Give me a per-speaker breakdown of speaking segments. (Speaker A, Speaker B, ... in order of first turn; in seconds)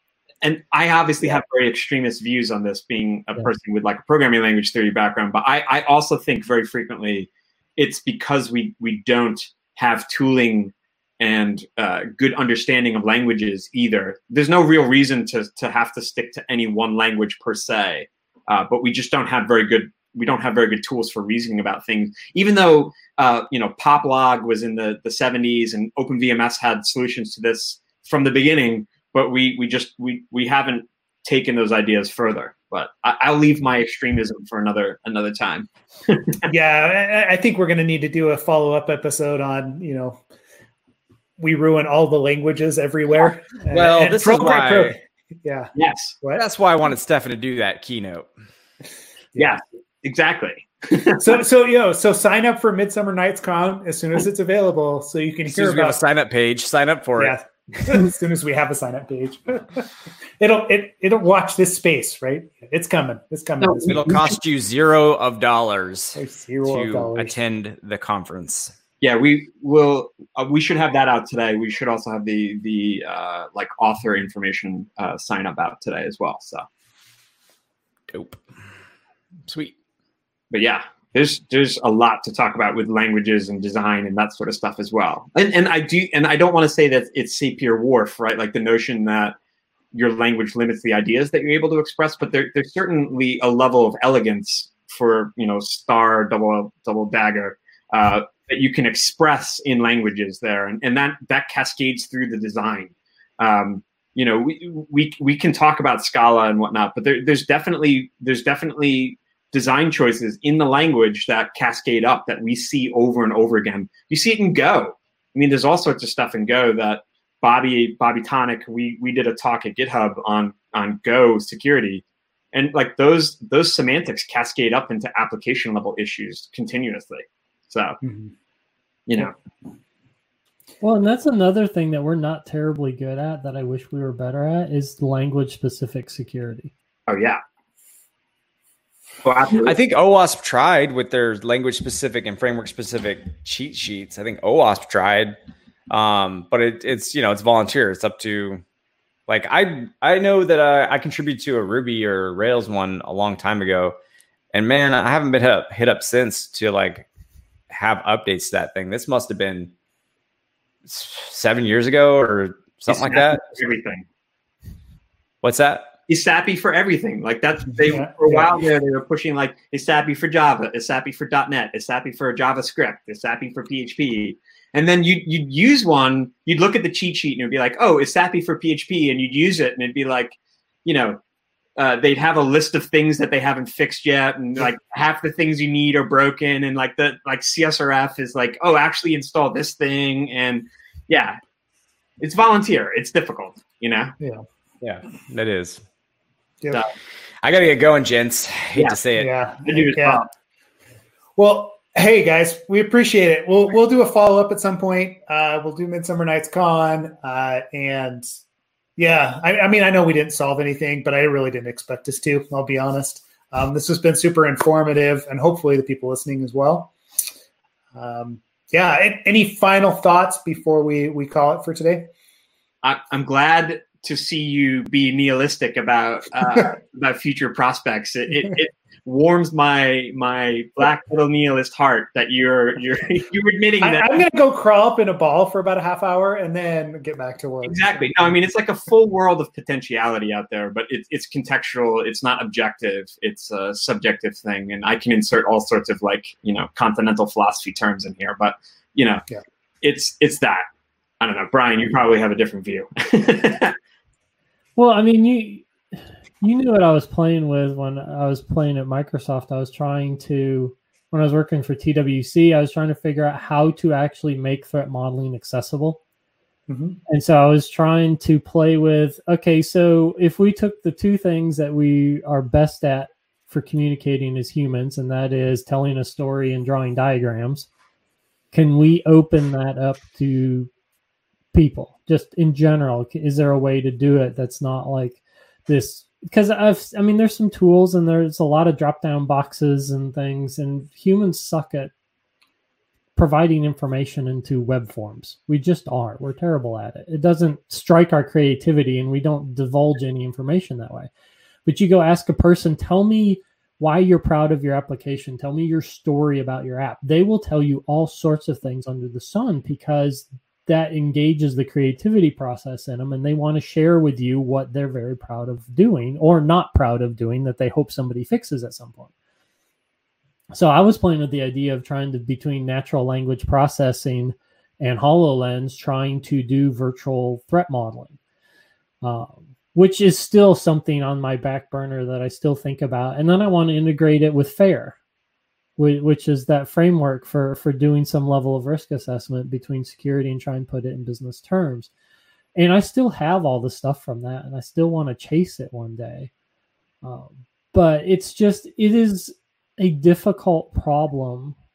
Speaker A: 0.4-36.5, 45.8-46.1, 49.4-51.4, 63.6-64.3, 69.0-76.6, 80.5-89.3, 89.9-128.0, 129.1-129.3, 137.1-137.4, 139.2-139.8, 162.9-164.0, 166.1-181.2, 181.8-191.4, 192.2-194.1, 199.6-200.3, 222.8-234.2, 237.6-249.2, 249.8-250.6, 251.2-253.7
Speaker B: 36.5-40.2, 41.4-46.4, 51.2-56.0, 57.2-64.2, 66.2-67.3, 128.0-128.3, 167.8-168.5, 199.2-200.2, 201.4-208.3, 209.0-216.9, 217.9-222.1, 233.8-238.0, 266.7-267.0
Speaker C: 43.7-45.0, 46.3-48.3, 55.5-57.4, 63.9-68.7, 78.1-78.4, 79.5-79.7, 139.6-145.3, 145.9-148.6, 149.3-153.9, 154.5-157.1, 157.7-159.7, 160.8-163.6, 165.4-165.9, 194.8-195.8, 197.4-199.3
Speaker D: 130.8-136.7, 254.8-266.0, 267.1-277.7, 278.5-280.7, 281.5-291.9, 293.1-301.1, 301.6-319.1, 320.5-328.1, 329.0-335.0, 335.8-341.9, 342.5-346.3, 347.0-351.6